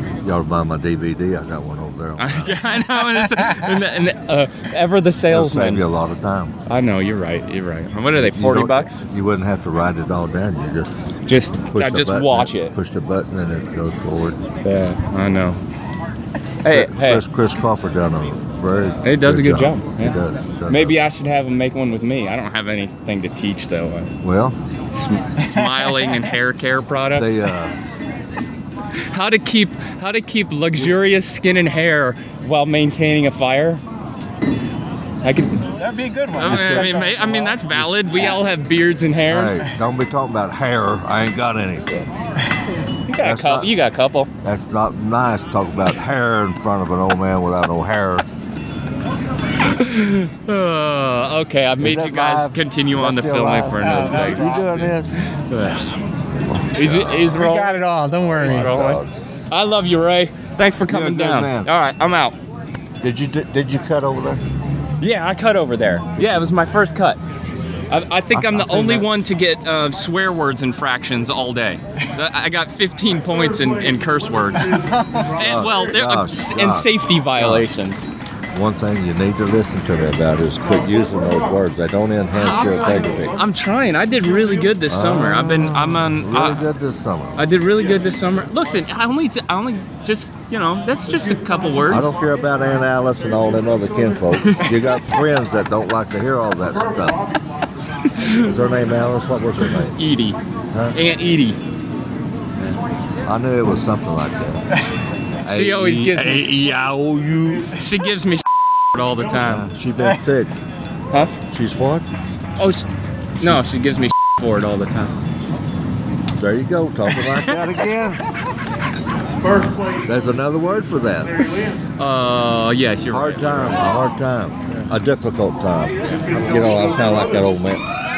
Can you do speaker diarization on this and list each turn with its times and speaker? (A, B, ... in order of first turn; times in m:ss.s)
0:00.2-0:02.6 A
0:02.2-0:05.8 B
0:05.3-0:06.6 A
0:06.7-0:09.0 B
0:08.2-0:11.2 A
0:11.3-0:12.7 B
0:11.7-0:14.4 A
0:14.6-0:15.6 B
0:16.6-0:17.2 B
0:16.7-0:21.0 A
0:19.0-0:20.1 B
0:20.7-0:24.1 B
0:24.2-0:24.6 A
0:24.9-0:27.4 B
0:27.1-0:27.7 A
0:29.1-0:33.8 B
0:35.2-0:35.7 B
0:35.8-0:37.5 C
0:36.3-0:39.6 B
0:36.4-0:38.3 A
0:39.3-0:41.9 A
0:43.0-0:44.3 B
0:43.2-0:43.7 A
0:44.4-0:48.2 A
0:49.7-0:54.9 B
0:51.8-0:55.2 A
0:53.8-0:54.6 C
0:55.5-0:55.8 B
0:56.4-0:57.5 A
0:56.7-0:57.7 B
0:57.3-0:58.8 C
0:58.3-0:59.2 A
0:58.4-0:59.0 B
0:59.5-1:02.4 B
1:00.9-1:01.7 A
1:03.0-1:04.4 A
1:05.0-1:07.2 B
1:07.9-1:18.1 B
1:08.3-1:09.1 A
1:15.4-1:17.7 A
1:18.5-1:23.4 A
1:22.3-1:26.6 B
1:24.9-1:27.4 A
1:27.4-1:32.1 B
1:31.9-1:37.2 A
1:38.4-1:40.0 A
1:40.0-1:40.4 B
1:40.7-1:41.0 A
1:40.9-1:41.6 B
1:43.2-1:44.6 A
1:45.4-1:46.6 B
1:45.4-1:47.7 A
1:47.7-1:49.6 B
1:49.4-1:50.5 A
1:51.4-1:52.1 A
1:52.6-1:52.8 B
1:53.4-1:55.1 B
1:56.4-1:58.2 A
2:00.0-2:01.8 A
2:02.0-2:03.8 B
2:03.1-2:07.8 A